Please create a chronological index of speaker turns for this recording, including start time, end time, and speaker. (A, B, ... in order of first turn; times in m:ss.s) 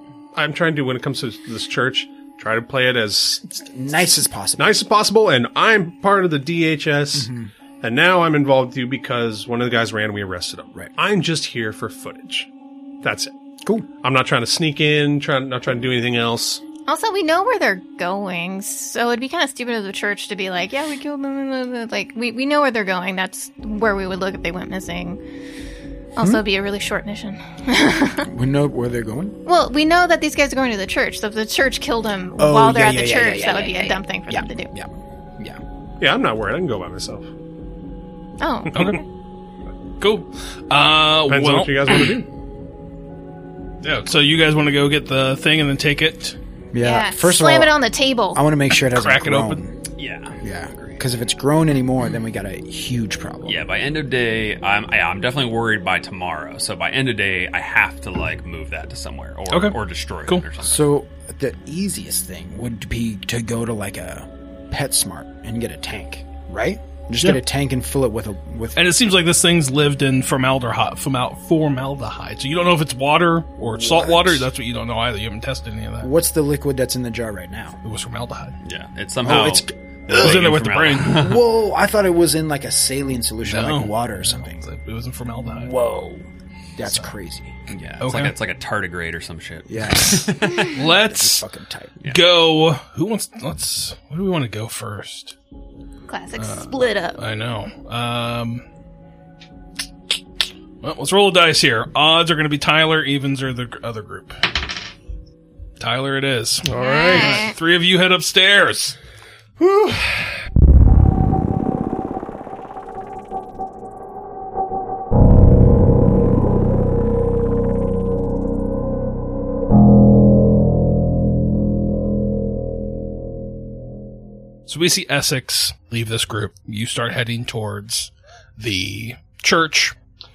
0:00.4-0:07.3 A
0:03.7-0:04.8 B
0:07.1-0:07.5 B
0:07.8-0:12.5 A
0:13.0-0:13.3 A
0:14.0-0:16.6 A
0:16.9-0:25.2 C
0:26.2-0:28.3 C
0:28.2-0:29.4 B
0:29.5-0:34.7 C
0:32.4-0:35.6 B
0:36.0-0:37.3 A
0:38.4-0:39.0 C
0:38.7-0:39.0 D
0:40.0-0:42.2 D
0:41.3-0:42.3 A
0:43.8-0:46.4 D
0:46.7-0:47.8 B
0:46.8-0:48.4 C
0:48.3-0:49.8 B
0:48.8-0:49.6 D
0:50.0-0:50.4 E
0:50.4-0:53.6 B
0:53.5-1:00.8 E
0:59.5-0:59.8 D
1:00.6-1:08.8 B
1:08.8-1:16.1 D
1:13.7-1:14.4 B
1:16.0-1:17.8 B
1:17.8-1:18.6 D
1:18.6-1:21.4 E
1:19.2-1:20.5 B
1:20.1-1:21.3 D
1:21.2-1:24.6 B
1:23.4-1:25.7 D
1:25.6-1:27.6 B
1:27.7-1:30.8 E
1:28.0-1:28.3 D
1:29.7-1:32.0 B
1:30.0-1:31.5 D
1:32.1-1:35.4 D
1:36.1-1:37.2 C
1:36.4-1:38.6 D
1:40.8-1:44.4 D
1:45.8-1:49.0 D
1:46.7-1:47.5 A
1:46.7-1:47.6 C
1:49.6-1:50.2 A
2:04.7-2:10.0 D